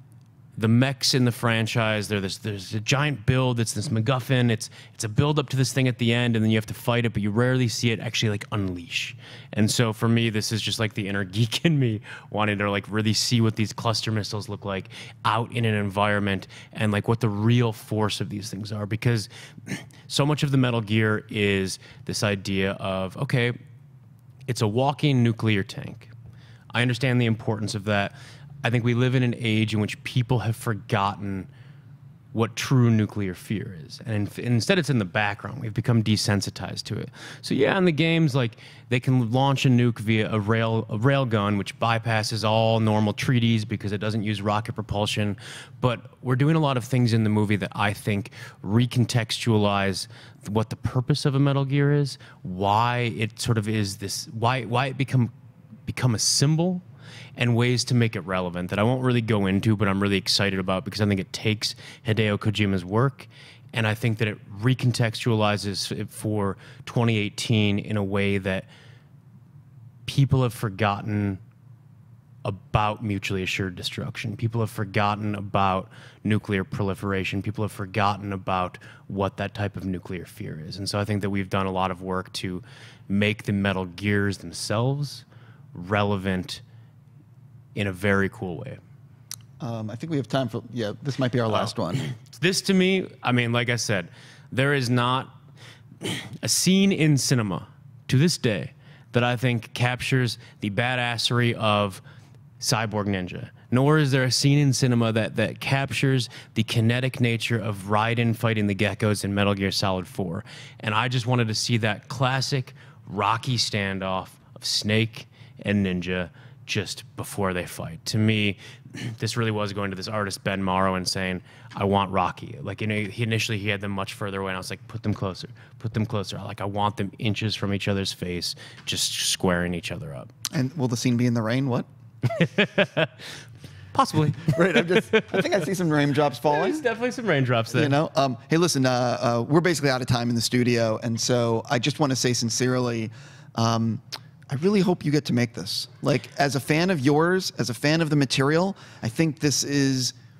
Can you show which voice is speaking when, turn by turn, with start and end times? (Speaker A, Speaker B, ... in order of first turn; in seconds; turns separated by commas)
Speaker A: 0.6-23.5, Speaker A: 24.5-26.1, Speaker A: 26.7-31.5, Speaker A: 32.3-55.3, Speaker A: 55.9-56.8, Speaker A: 57.4-68.7, Speaker A: 70.0-71.4, Speaker A: 72.4-86.6, Speaker A: 87.7-88.8, Speaker B: 89.6-92.1, Speaker A: 91.5-95.3, Speaker A: 96.0-102.0, Speaker A: 102.6-130.3, Speaker B: 130.5-131.8, Speaker A: 132.3-133.1, Speaker A: 133.9-135.6, Speaker B: 134.4-136.8, Speaker A: 136.5-137.9, Speaker B: 137.7-150.1